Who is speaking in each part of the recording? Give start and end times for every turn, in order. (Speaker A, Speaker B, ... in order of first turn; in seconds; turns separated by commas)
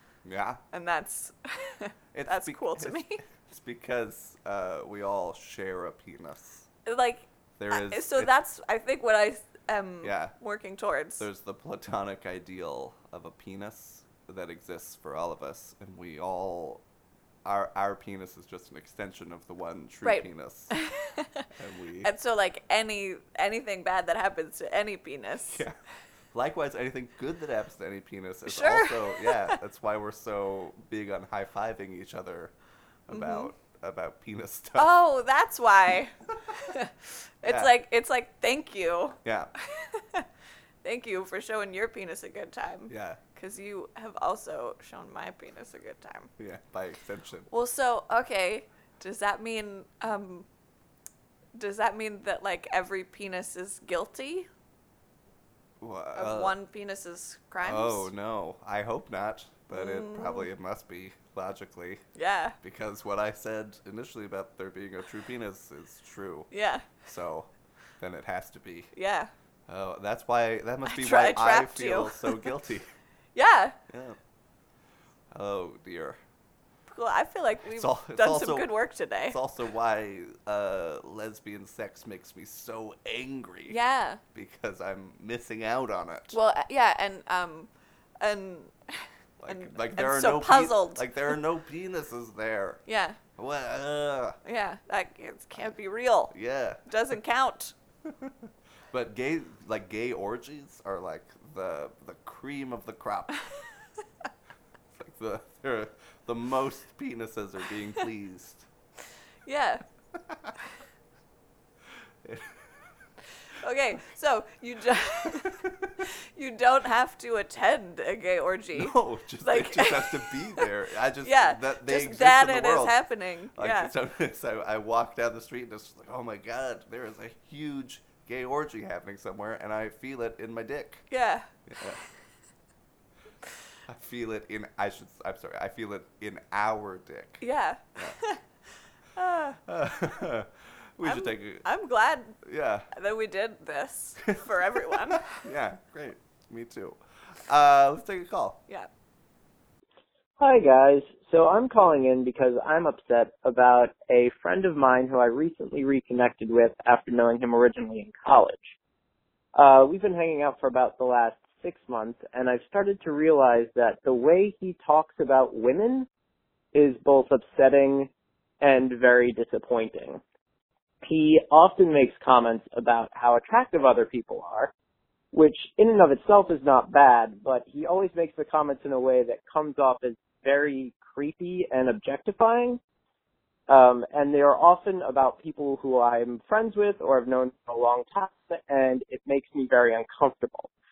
Speaker A: 0.2-0.6, Speaker B: 0.7-3.2, Speaker A: 2.1-6.7, Speaker B: 6.8-11.2, Speaker A: 7.6-8.3, Speaker A: 10.0-10.3, Speaker A: 11.2-16.8, Speaker A: 17.4-20.7, Speaker B: 20.0-21.5, Speaker A: 21.5-22.1, Speaker B: 22.0-25.6, Speaker A: 25.5-25.8, Speaker A: 26.3-32.5, Speaker B: 28.4-29.6, Speaker A: 33.1-34.9, Speaker B: 33.1-33.5, Speaker B: 34.8-40.3, Speaker A: 37.4-37.7, Speaker A: 39.2-39.5, Speaker B: 40.8-46.3, Speaker A: 42.9-43.2, Speaker A: 46.4-47.5, Speaker B: 47.5-50.5, Speaker B: 51.5-54.5, Speaker A: 55.8-56.5, Speaker B: 56.1-58.1, Speaker A: 57.6-62.0, Speaker B: 59.7-60.5, Speaker B: 62.1-62.6, Speaker A: 62.6-68.9, Speaker B: 66.5-66.9, Speaker B: 68.9-69.3, Speaker A: 69.7-72.9, Speaker B: 70.8-72.4, Speaker B: 73.3-73.8, Speaker A: 73.9-74.2, Speaker A: 75.3-76.2, Speaker B: 76.9-79.4, Speaker A: 77.7-78.7, Speaker A: 79.3-83.8, Speaker B: 83.7-84.2, Speaker A: 84.3-86.4, Speaker B: 86.3-91.4, Speaker A: 89.4-92.8, Speaker B: 92.8-93.2, Speaker A: 93.4-94.4, Speaker B: 94.4-97.7, Speaker A: 96.3-96.8, Speaker A: 98.0-98.3, Speaker A: 98.9-103.4, Speaker A: 104.9-108.7, Speaker B: 109.4-109.8, Speaker A: 112.2-112.7, Speaker B: 113.5-120.7, Speaker A: 115.6-115.9, Speaker A: 118.8-123.0, Speaker B: 121.2-123.9, Speaker A: 123.5-131.1, Speaker B: 131.1-131.5, Speaker A: 131.7-132.0, Speaker A: 133.9-137.4, Speaker B: 137.4-138.4, Speaker B: 139.1-139.6, Speaker A: 139.7-141.6, Speaker B: 141.0-142.4, Speaker A: 142.4-142.9, Speaker B: 142.9-145.5, Speaker A: 144.2-148.6, Speaker C: 150.4-158.7, Speaker C: 159.5-166.1, Speaker C: 166.7-168.1, Speaker C: 168.6-170.2, Speaker C: 171.0-174.7, Speaker C: 175.3-182.8, Speaker C: 183.7-190.7